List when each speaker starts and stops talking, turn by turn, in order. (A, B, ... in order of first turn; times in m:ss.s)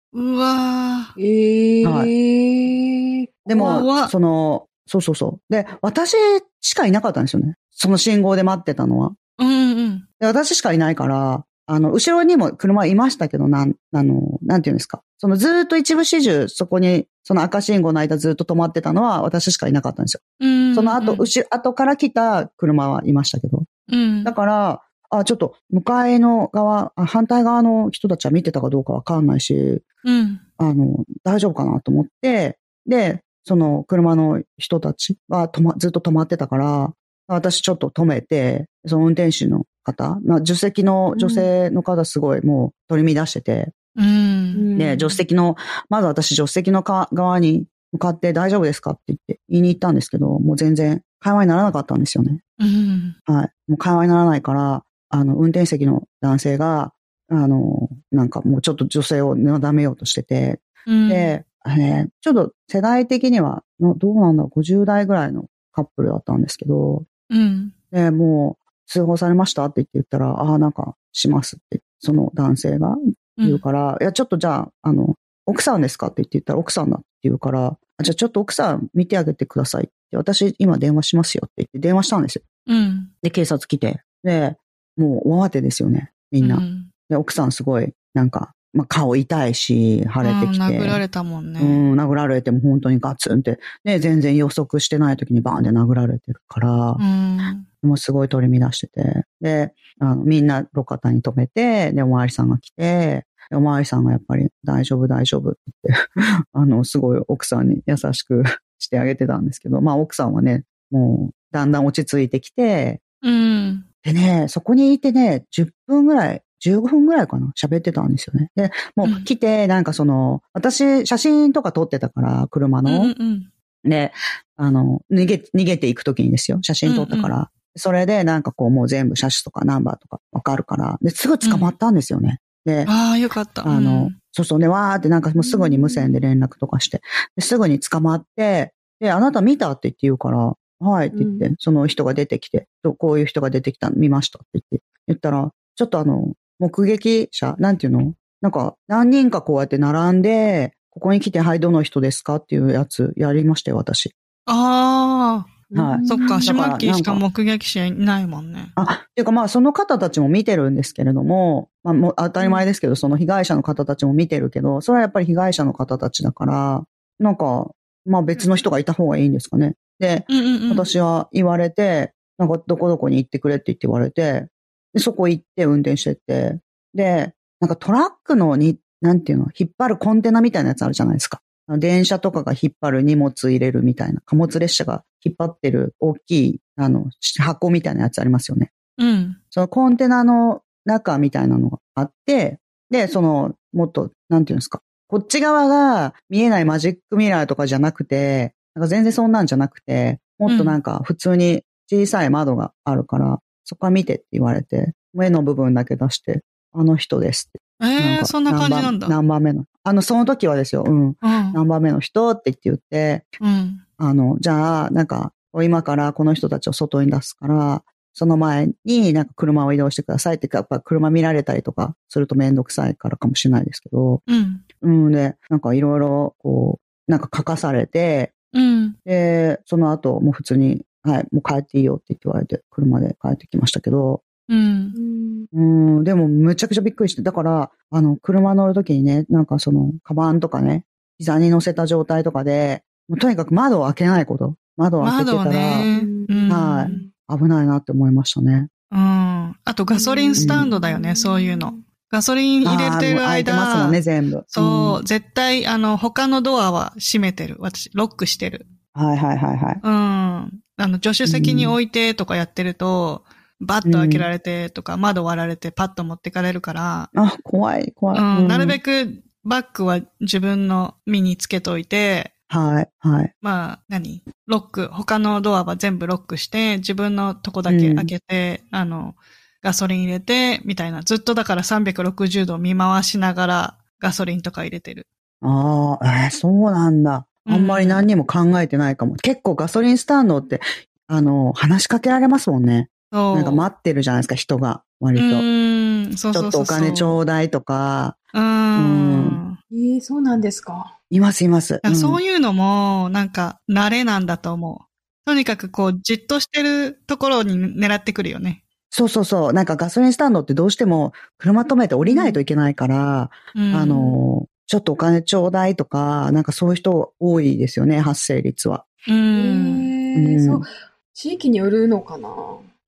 0:00.1-0:01.2 A
0:01.2-0:03.3 B
0:01.8-0:02.1 C
0:03.5-0:09.2 C
0:03.5-0:04.1 A
0:09.4-0:10.0 A
0:10.2-0:23.7 C
0:20.4-0:21.3 A
0:23.9-0:24.3 A
0:24.2-0:29.8 C
0:30.0-0:30.4 A
0:30.6-0:43.7 C
0:41.1-0:41.5 B
0:44.0-0:44.7 A
0:44.5-0:45.2 B
0:44.8-0:52.4 C
0:52.6-0:53.2 A
0:53.3-1:07.1 C
1:00.9-1:01.4 A
1:07.3-1:07.7 A
1:07.9-1:22.4 C
1:13.4-1:13.6 A
1:22.7-1:23.1 A
1:23.2-1:31.0 C
1:26.4-1:26.9 A
1:30.2-1:31.8 A
1:31.6-1:37.0 C
1:37.0-1:37.6 A
1:37.8-1:53.0 C
1:53.2-1:53.9 A
1:54.0-2:03.1 C
1:59.0-1:59.3 A
2:02.9-2:03.5 A
2:03.8-2:12.9 C
2:06.8-2:07.3 A
2:11.4-2:11.7 A
2:12.9-2:14.2 A
2:13.6-2:34.1 C
2:15.4-2:16.2 B
2:21.1-2:21.5 B
2:34.5-2:35.5 A
2:35.7-2:36.5 B
2:35.8-2:37.2 C
2:36.1-2:38.7 A
2:38.8-3:08.7 C
2:42.4-2:42.6 B
2:50.3-2:50.9 A
3:09.0-3:09.4 A
3:09.5-3:33.3 C
3:20.5-3:20.8 A
3:27.8-3:29.2 A
3:31.2-3:31.6 A
3:33.4-3:33.8 A
3:34.0-3:44.2 C
3:44.3-3:44.6 A
3:44.8-3:48.3 C
3:48.5-3:49.0 A
3:49.1-3:54.2 C
3:54.5-3:55.0 A
3:54.9-3:55.5 B
3:55.5-4:05.9 C
4:05.0-4:07.1 A
4:05.8-4:07.1 B
4:06.5-4:08.7 C
4:08.9-4:14.0 A
4:09.9-4:11.8 B
4:10.4-4:10.7 C
4:12.6-4:15.0 C
4:14.5-4:18.6 A
4:18.9-4:19.8 C
4:19.8-4:27.1 A
4:21.2-4:21.8 C
4:23.8-4:24.3 C
4:27.1-4:28.8 C
4:28.1-4:32.3 A
4:32.5-4:33.3 C
4:33.4-4:45.1 A
4:37.7-4:38.1 C
4:45.4-4:55.5 C
4:47.5-4:48.0 A
4:53.1-4:53.7 A
4:55.2-4:57.2 A
4:56.3-4:58.2 C
4:58.3-4:59.6 A
4:58.8-4:59.4 C
4:59.7-5:01.0 B
5:01.1-5:02.2 C
5:01.8-5:08.6 A
5:08.9-5:18.8 C
5:12.0-5:12.4 B
5:13.6-5:14.2 A
5:19.1-5:19.9 A
5:19.4-5:22.7 B
5:20.2-5:20.6 C